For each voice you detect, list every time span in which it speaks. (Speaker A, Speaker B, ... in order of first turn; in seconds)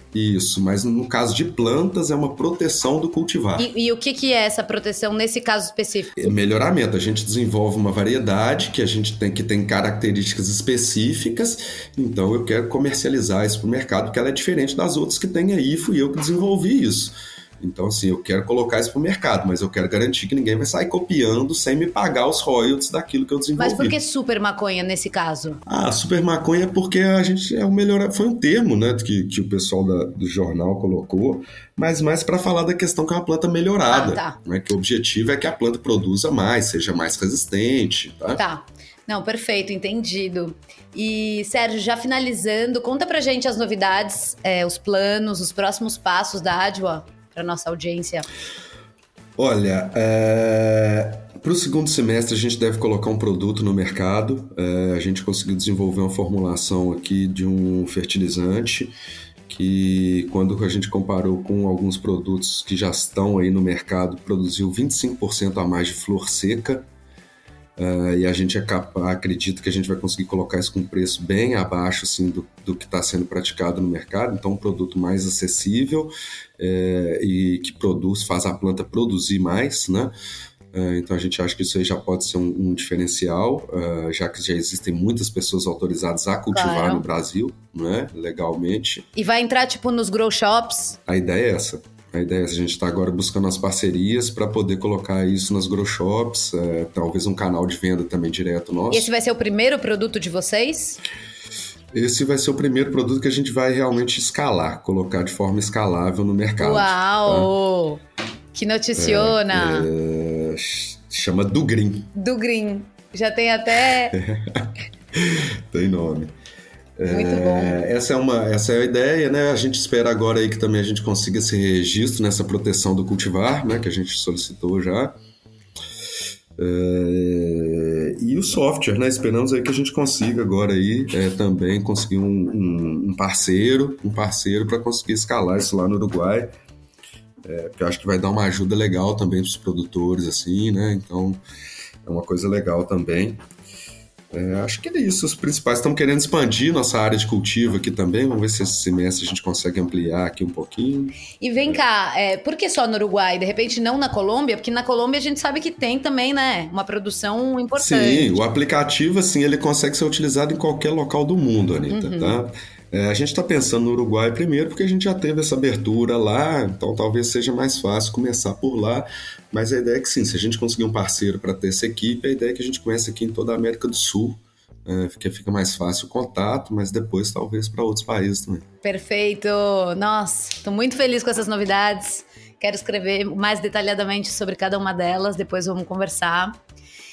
Speaker A: 0.1-3.7, 6.2-24.0, 25.7-38.4, 49.4-59.0, 59.5-66.9, 67.8-80.2, 80.7-89.1, 91.1-99.1, 101.9-107.5, 109.0-112.1, 114.1-116.3, 117.0-125.2, 126.6-136.6, 137.4-141.4, 142.1-143.4, 144.3-151.8, 157.8-178.7
Speaker B: 3.6-6.3, 23.6-25.6, 33.9-34.4, 38.4-48.3, 86.5-87.0, 89.2-91.0, 98.9-101.0, 106.6-108.0, 108.5-109.9, 112.2-114.2, 117.1-117.8, 151.4-158.5, 161.9-162.4, 178.8-186.6